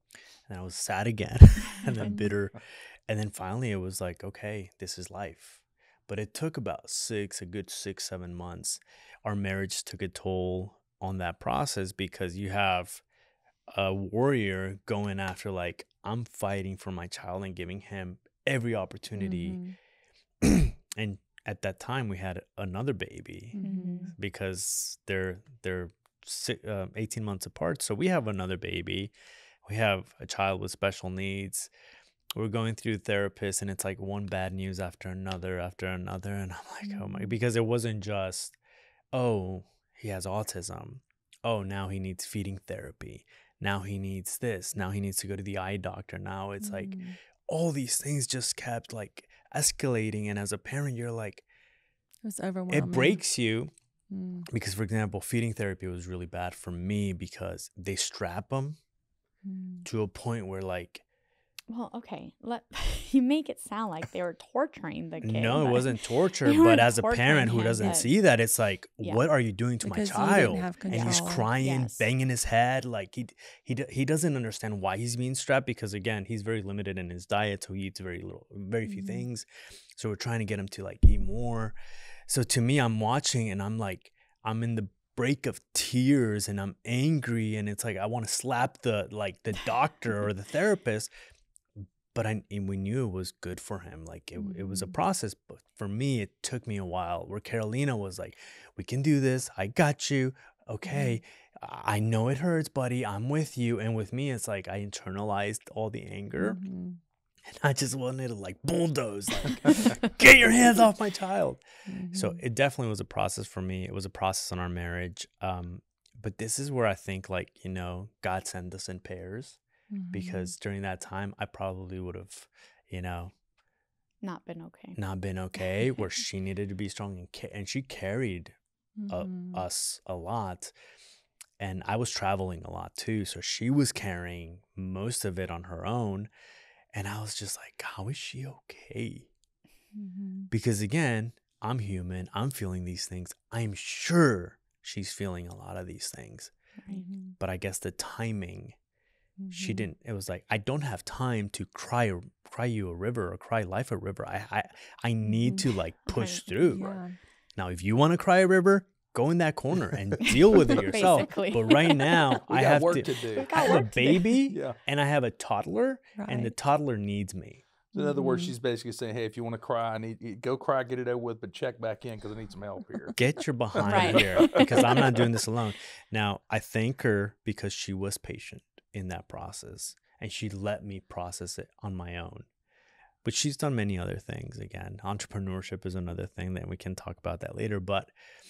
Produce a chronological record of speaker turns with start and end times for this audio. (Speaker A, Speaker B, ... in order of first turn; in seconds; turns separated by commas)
Speaker A: 0.5-13.0, Speaker B: 2.0-2.3, Speaker A: 13.7-19.6, Speaker B: 19.2-19.8, Speaker A: 20.4-29.1, Speaker B: 23.5-24.1, Speaker C: 23.6-24.1, Speaker A: 29.6-31.7, Speaker A: 32.3-38.6, Speaker B: 36.8-37.4, Speaker A: 39.1-51.4, Speaker B: 46.6-47.2, Speaker B: 52.2-53.2, Speaker A: 52.7-53.7, Speaker B: 54.1-54.5, Speaker A: 54.5-58.8, Speaker B: 59.4-59.9, Speaker A: 59.8-61.0, Speaker C: 61.7-68.1, Speaker A: 65.2-81.7, Speaker B: 67.5-68.0, Speaker B: 69.8-71.5, Speaker C: 70.9-72.1, Speaker B: 78.9-79.2, Speaker A: 82.3-91.1, Speaker A: 91.8-106.6, Speaker B: 94.4-94.9, Speaker B: 100.8-101.2, Speaker B: 106.4-107.0, Speaker A: 107.4-119.6, Speaker B: 111.9-112.4, Speaker B: 119.9-120.5, Speaker A: 120.1-123.3, Speaker C: 124.2-125.0, Speaker A: 125.0-128.5, Speaker B: 129.0-129.6, Speaker A: 129.1-130.7, Speaker A: 131.6-136.3, Speaker A: 136.9-139.3, Speaker B: 139.9-140.5, Speaker A: 140.5-146.5, Speaker B: 146.9-147.4, Speaker A: 147.4-148.7, Speaker B: 149.4-149.9, Speaker A: 149.5-157.0, Speaker B: 155.2-155.7, Speaker C: 156.1-156.5, Speaker B: 156.6-157.1, Speaker A: 157.6-167.6, Speaker C: 160.5-162.2, Speaker D: 162.4-163.8, Speaker C: 163.4-164.3, Speaker D: 164.4-164.8, Speaker B: 166.2-166.5, Speaker D: 167.9-173.2, Speaker B: 167.9-168.5, Speaker A: 173.2-182.5, Speaker C: 173.8-174.3, Speaker A: 183.2-188.1